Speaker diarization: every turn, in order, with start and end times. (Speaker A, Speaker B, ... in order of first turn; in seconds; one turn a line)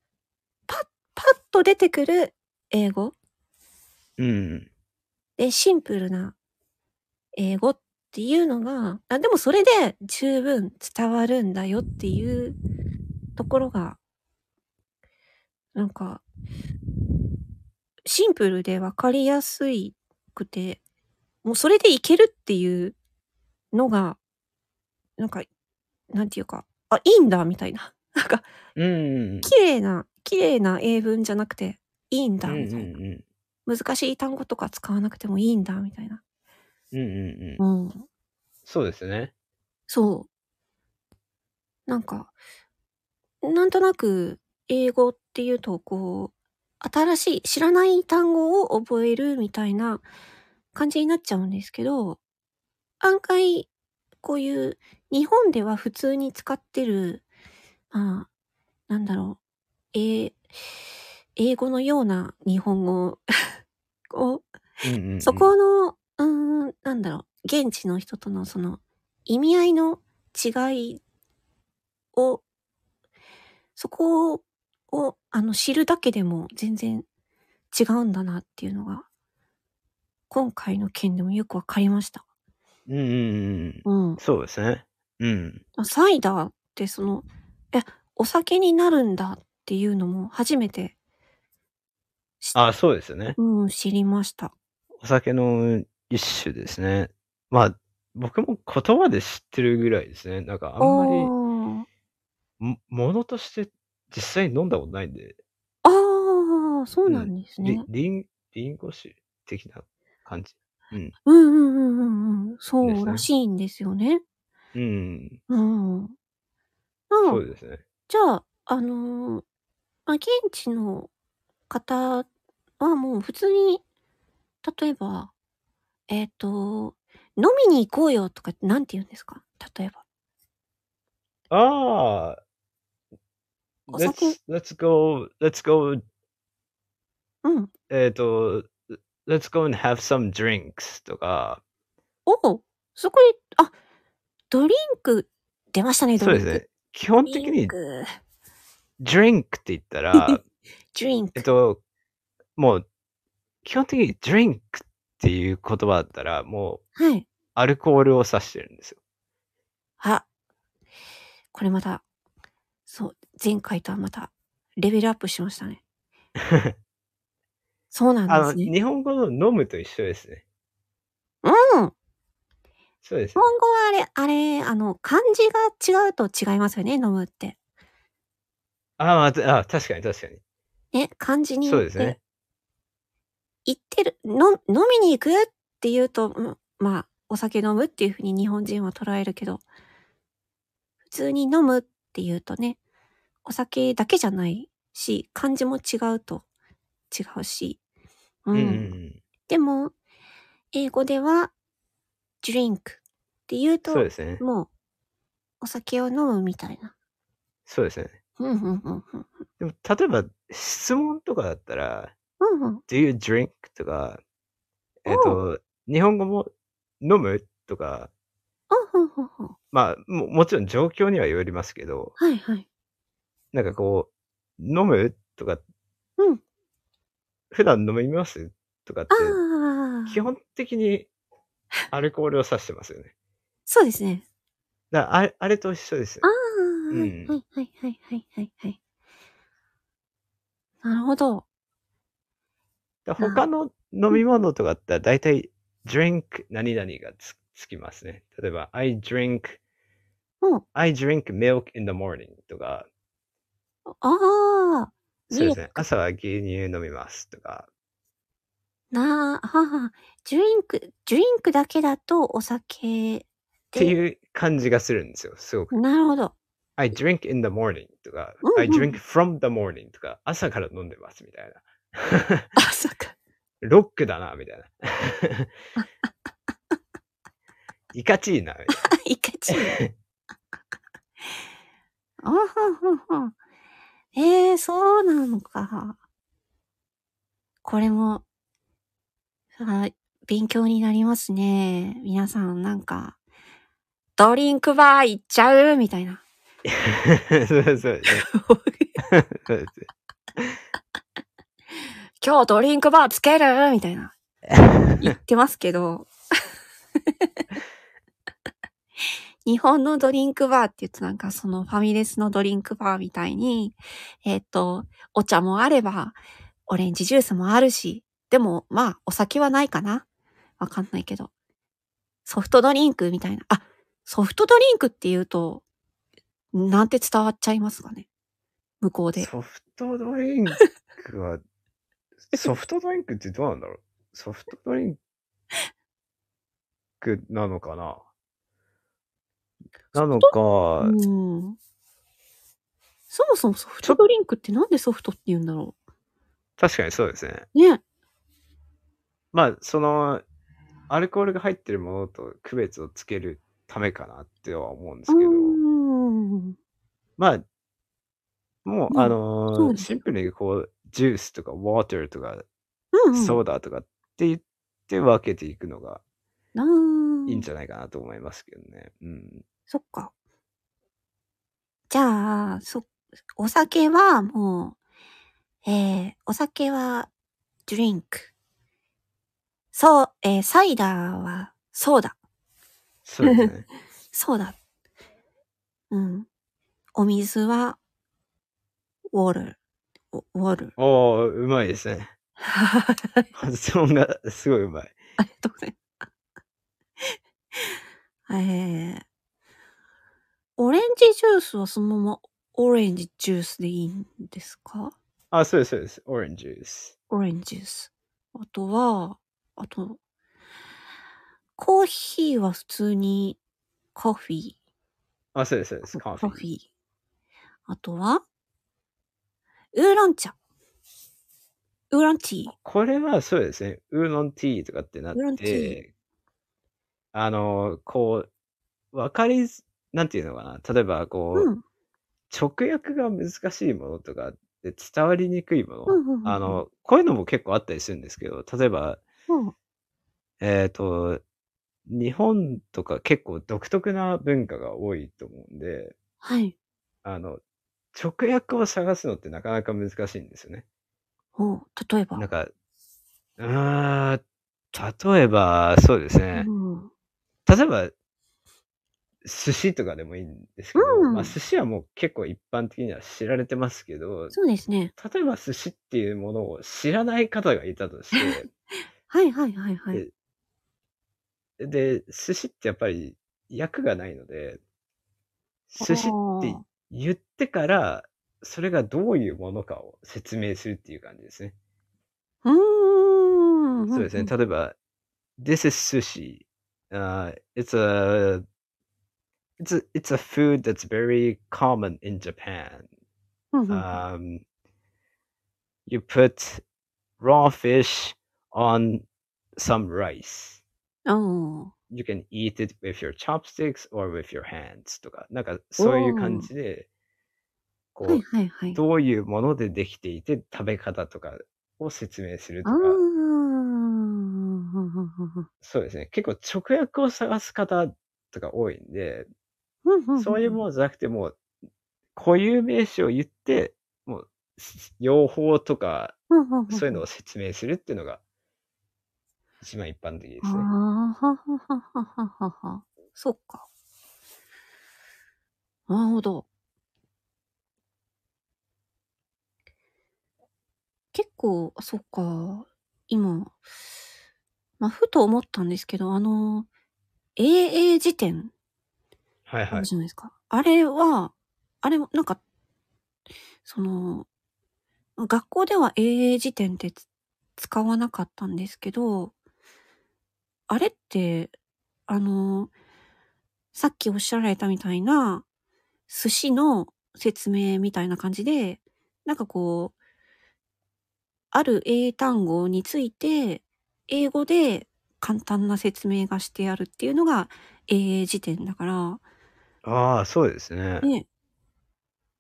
Speaker A: 0.7-3.1
Speaker B: 4.2-4.7
Speaker A: 5.4-6.4
Speaker A: 7.4-12.6
Speaker A: 13.4-14.0
Speaker A: 15.8-16.2
Speaker A: 18.1-20.8
Speaker A: 21.4-23.0
Speaker A: 23.7-24.2
Speaker A: 25.2-25.5
Speaker A: 26.1-28.5
Speaker B: 28.8-29.5
Speaker A: 29.4-32.9
Speaker B: 32.5-33.2
Speaker A: 33.7-36.2
Speaker B: 36.9-37.6
Speaker A: 37.6-38.0
Speaker B: 38.7-39.3
Speaker A: 39.9-40.3
Speaker A: 41.9-42.3
Speaker A: 43.4-50.0
Speaker A: 50.7-52.2
Speaker A: 53.0-53.7
Speaker A: 54.2-57.2
Speaker A: 57.9-58.3
Speaker A: 58.9-59.4
Speaker A: 59.9-60.5
Speaker A: 61.4-63.2
Speaker A: 64.1-64.5
Speaker B: 64.8-65.5
Speaker A: 65.2-71.0
Speaker A: 72.2-72.4
Speaker A: 73.8-77.1
Speaker A: 77.7-79.1
Speaker A: 80.3-82.2
Speaker B: 82.9-85.6
Speaker A: 83.8-84.2
Speaker A: 85.8-91.0
Speaker B: 92.5-93.4
Speaker A: 93.4-94.5
Speaker B: 95.0-101.3
Speaker A: 100.8-101.9
Speaker B: 102.6-105.4
Speaker A: 105.8-107.9
Speaker B: 107.1-111.1
Speaker A: 111.3-114.2
Speaker B: 112.8-113.3
Speaker B: 114.8-115.4
Speaker A: 115.5-116.2
Speaker A: 117.1-117.4
Speaker B: 117.2-117.8
Speaker A: 118.1-119.5
Speaker A: 120.1-121.1
Speaker A: 121.7-122.3
Speaker A: 122.8-123.8
Speaker A: 124.6-125.3
Speaker A: 126.1-130.0
Speaker B: 131.5-132.4
Speaker A: 133.9-134.4
Speaker B: 133.9-136.0
Speaker A: 137.4-137.7
Speaker B: 137.9-141.6
Speaker A: 142.3-143.7
Speaker A: 144.5-146.6
Speaker B: 146.2-147.8
Speaker A: 147.3-148.2
Speaker B: 149.0-150.4
Speaker A: 150.1-150.4
Speaker A: 150.9-151.5
Speaker B: 151.3-151.8
Speaker B: 152.6-152.8
Speaker B: 153.6-156.8
Speaker A: 157.0-157.3
Speaker B: 157.6-159.0
Speaker A: 160.0-160.3
Speaker A: 161.5-162.0
Speaker A: 162.9-165.8
Speaker B: 166.4-166.7
Speaker A: 167.9-168.7
Speaker B: 168.3-170.4
Speaker A: 171.4-171.9
Speaker B: 173.0-173.5
Speaker A: 173.4-177.6
Speaker B: 179.0-180.4
Speaker A: 180.9-182.2
Speaker B: 181.7-182.2
Speaker A: 183.7-189.6
Speaker A: 191.1-192.8
Speaker A: 193.4-196.4
Speaker A: 197.1-197.8
Speaker A: 198.5-199.9
Speaker B: 198.5-199.2
Speaker A: 200.7-201.5
Speaker A: 202.4-204.7
Speaker B: 203.9-204.4
Speaker A: 205.6-206.9
Speaker B: 207.7-208.2
Speaker A: 208.4-209.4
Speaker B: 209.6-212.1
Speaker A: 212.4-212.8
Speaker B: 212.9-214.2
Speaker B: 215.0-218.1
Speaker A: 215.1-215.4
Speaker A: 218.7-219.6
Speaker B: 219.7-222.2
Speaker A: 222.2-222.7
Speaker B: 223.5-225.6
Speaker B: 227.5-229.4
Speaker A: 229.1-230.2
Speaker B: 230.1-231.1
Speaker B: 231.9-233.1
Speaker A: 233.7-234.2
Speaker B: 234.9-236.3
Speaker A: 236.2-238.8
Speaker B: 236.9-237.4
Speaker A: 240.8-241.5
Speaker B: 243.1-249.6
Speaker A: 243.2-243.4
Speaker B: 250.8-252.9
Speaker A: 253.9-255.9
Speaker B: 255.3-257.7
Speaker A: 258.9-264.0
Speaker B: 263.8-265.7
Speaker A: 265.7-266.3
Speaker B: 266.8-272.5
Speaker A: 268.4-268.9
Speaker A: 272.6-273.1
Speaker B: 273.6-275.5
Speaker B: 277.9-278.8
Speaker A: 278.7-279.8
Speaker B: 279.5-279.9
Speaker A: 282.2-283.3
Speaker A: 284.1-286.0
Speaker A: 287.6-288.2
Speaker A: 289.6-293.2
Speaker A: 294.2-296.2
Speaker B: 296.6-298.3
Speaker A: 298.1-298.9
Speaker B: 299.0-299.9
Speaker A: 302.2-304.1
Speaker B: 304.5-305.1
Speaker A: 305.0-306.1
Speaker A: 309.4-320.1
Speaker A: 320.6-321.3
Speaker A: 322.3-325.6
Speaker A: 326.5-328.1
Speaker A: 328.8-329.3
Speaker B: 329.2-331.4
Speaker B: 332.3-335.0
Speaker B: 337.0-338.0
Speaker B: 339.9-340.9
Speaker A: 339.9-341.6
Speaker A: 343.1-345.8
Speaker B: 346.6-347.5
Speaker A: 347.6-347.8
Speaker B: 349.3-350.2
Speaker B: 350.9-355.6
Speaker A: 355.1-356.6
Speaker B: 357.2-357.4
Speaker B: 358.6-362.4
Speaker A: 358.9-359.9
Speaker A: 362.9-363.4
Speaker B: 363.1-366.0
Speaker A: 366.6-367.5
Speaker B: 367.3-369.4
Speaker A: 369.7-370.1
Speaker A: 371.9-374.8
Speaker A: 375.6-377.1
Speaker A: 377.7-378.3
Speaker A: 379.7-382.2
Speaker B: 383.1-383.6
Speaker A: 383.2-383.5
Speaker A: 384.1-384.6
Speaker A: 385.9-386.3
Speaker A: 387.0-387.8
Speaker A: 389.1-389.6
Speaker A: 390.1-390.7
Speaker B: 390.8-392.1
Speaker A: 392.4-393.3
Speaker B: 393.4-394.9
Speaker A: 395.2-395.8
Speaker A: 398.3-399.1
Speaker A: 400.6-404.9
Speaker B: 405.3-406.9
Speaker A: 407.1-410.0
Speaker A: 411.6-413.4
Speaker A: 413.9-414.6
Speaker B: 415.4-416.4
Speaker A: 415.9-416.7
Speaker A: 417.7-418.2
Speaker A: 419.7-420.4
Speaker A: 421.9-422.5
Speaker B: 422.6-425.9
Speaker A: 425.1-425.8
Speaker B: 427.1-428.3
Speaker B: 428.9-431.5
Speaker A: 431.4-431.6
Speaker B: 432.3-439.0
Speaker A: 435.9-436.6
Speaker B: 440.4-441.2
Speaker B: 441.9-445.9
Speaker A: 446.2-446.6
Speaker B: 447.0-447.4
Speaker B: 447.9-450.6
Speaker A: 451.4-452.2
Speaker B: 452.2-452.5
Speaker B: 453.4-454.2
Speaker B: 454.7-456.5
Speaker A: 456.3-456.9
Speaker B: 457.5-457.9
Speaker B: 459.2-464.4
Speaker A: 460.8-461.4
Speaker A: 464.3-464.9
Speaker B: 465.0-468.5
Speaker A: 468.1-468.4
Speaker A: 469.1-470.0
Speaker B: 471.6-474.6
Speaker B: 475.7-481.6
Speaker A: 475.8-476.6
Speaker A: 482.4-484.3
Speaker B: 483.9-484.8
Speaker B: 485.4-488.4
Speaker B: 489.6-492.9
Speaker A: 493.5-493.9
Speaker B: 493.7-494.4
Speaker B: 495.9-496.6
Speaker B: 497.2-499.1
Speaker B: 499.6-500.6
Speaker A: 501.1-501.7
Speaker B: 501.9-506.9
Speaker A: 505.8-506.5
Speaker B: 507.9-513.0
Speaker A: 508.1-508.8
Speaker A: 512.6-515.5
Speaker B: 515.6-519.3
Speaker A: 519.9-520.6
Speaker B: 520.2-521.4
Speaker B: 522.2-526.2
Speaker A: 526.3-527.0
Speaker B: 526.7-528.2
Speaker B: 529.6-530.7
Speaker A: 530.4-533.7
Speaker A: 535.9-536.5
Speaker A: 541.1-543.5
Speaker A: 544.8-546.7
Speaker A: 547.4-548.5
Speaker B: 549.5-549.9
Speaker A: 549.7-552.4
Speaker A: 553.6-554.3
Speaker A: 555.2-557.0
Speaker A: 557.6-559.3
Speaker A: 560.7-561.5
Speaker A: 562.1-562.7
Speaker A: 563.7-565.5
Speaker A: 566.1-570.0
Speaker A: 571.5-579.2
Speaker B: 579.8-581.1